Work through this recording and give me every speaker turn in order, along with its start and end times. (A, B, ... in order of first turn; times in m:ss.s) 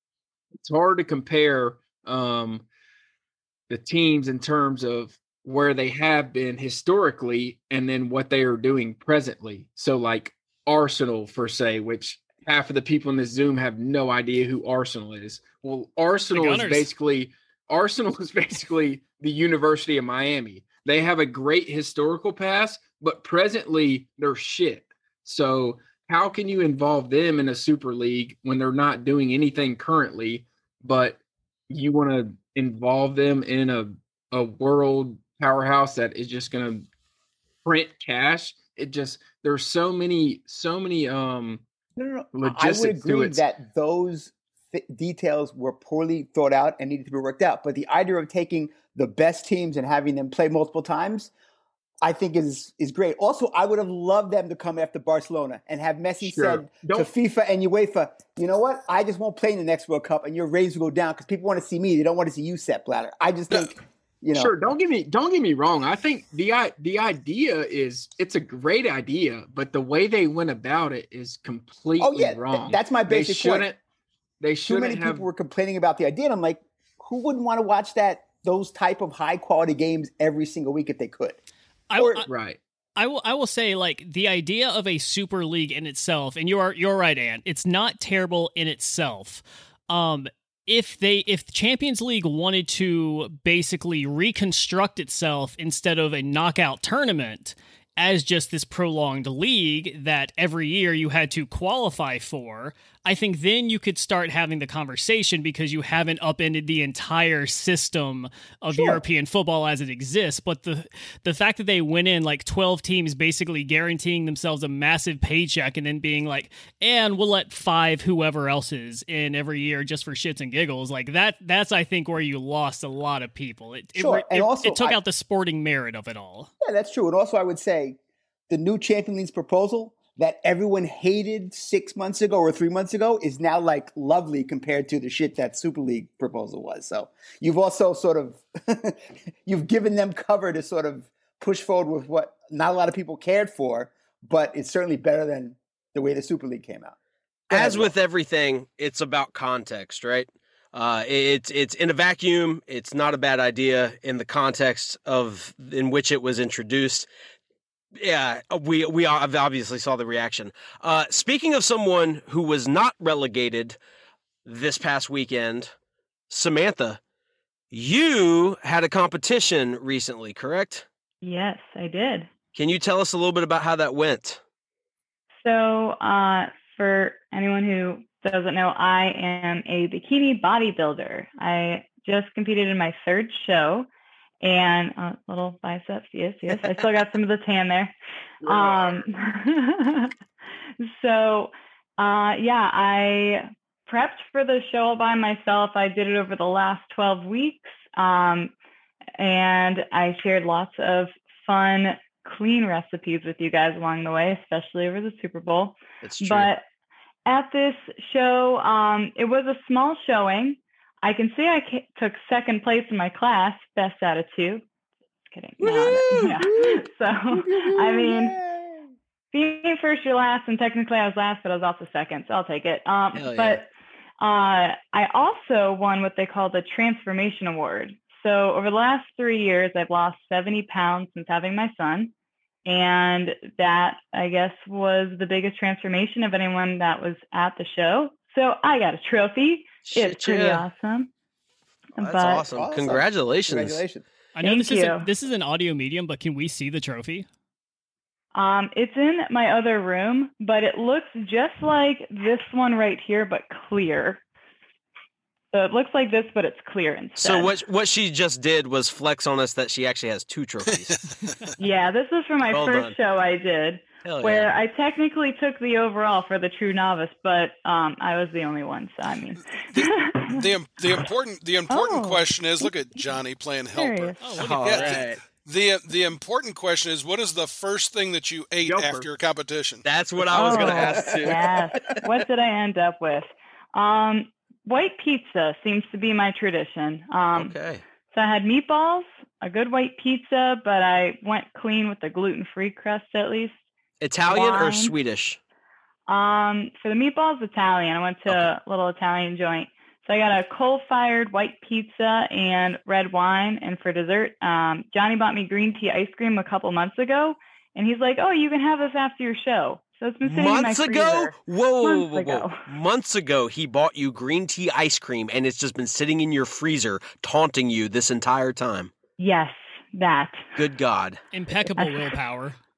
0:00.6-0:02.6 A
0:03.7-0:36.9 A
0:16.3-0:16.9 B
0:37.6-0:41.6 A
0:42.0-0:51.3 C
0:42.3-0:43.4 A
0:52.0-1:04.5 C
0:56.2-0:57.1 A
1:04.3-1:13.8 A
1:12.0-1:13.7 C
1:14.4-1:15.3 A
1:14.7-1:21.4 C
1:21.9-1:22.3 B
1:22.0-1:22.2 C
1:22.3-1:22.6 A
1:23.0-2:06.5 B
1:48.7-1:49.0 C
2:04.0-2:05.0 C
2:06.6-2:08.0 C
2:08.5-2:27.0 C
2:27.5-2:27.9 C
2:27.5-2:37.1 D
2:38.0-2:43.8 D
2:44.4-2:45.7 D
2:46.3-2:47.0 D
2:47.7-2:50.8 D
2:51.2-2:52.3 E
2:52.5-2:54.4 D
2:55.4-3:03.9 E
3:04.4-3:07.9 E
3:08.4-3:09.0 A
3:08.4-3:10.1 E
3:10.8-3:18.5 E
3:19.2-3:26.6 E
3:26.0-3:26.5 D
3:27.2-3:34.6 E
3:35.3-3:38.3 E
3:35.6-3:38.9 C
3:39.3-3:43.7 E
3:43.1-3:43.6 D
3:44.2-3:52.1 E
3:52.6-4:01.1 E
3:59.8-4:00.6 D
4:02.0-4:02.4 E
4:02.0-4:03.8 D
4:02.2-4:04.0 C
4:04.3-4:07.3 B
4:04.4-4:05.0 E
4:08.3-4:14.2 E
4:15.5-4:17.5 E
4:17.2-4:21.0 D
4:20.8-4:21.5 F
4:21.6-4:30.5 E
4:22.5-4:23.0 D
4:24.0-4:24.5 D
4:29.7-4:39.8 F
4:31.7-4:33.1 E
4:33.7-4:34.2 E
4:34.2-4:35.0 B
4:34.4-4:35.2 D
4:38.6-4:39.1 A
4:39.8-4:41.9 D
4:40.3-4:47.5 E
4:40.7-4:41.4 C
4:47.3-4:47.8 D
4:48.1-4:53.6 E
4:54.0-4:55.4 D
4:54.3-4:54.9 E
4:56.1-5:12.6 E
5:10.2-5:18.9 D
5:19.2-5:20.5 E
5:20.6-5:21.2 D
5:21.3-5:22.6 B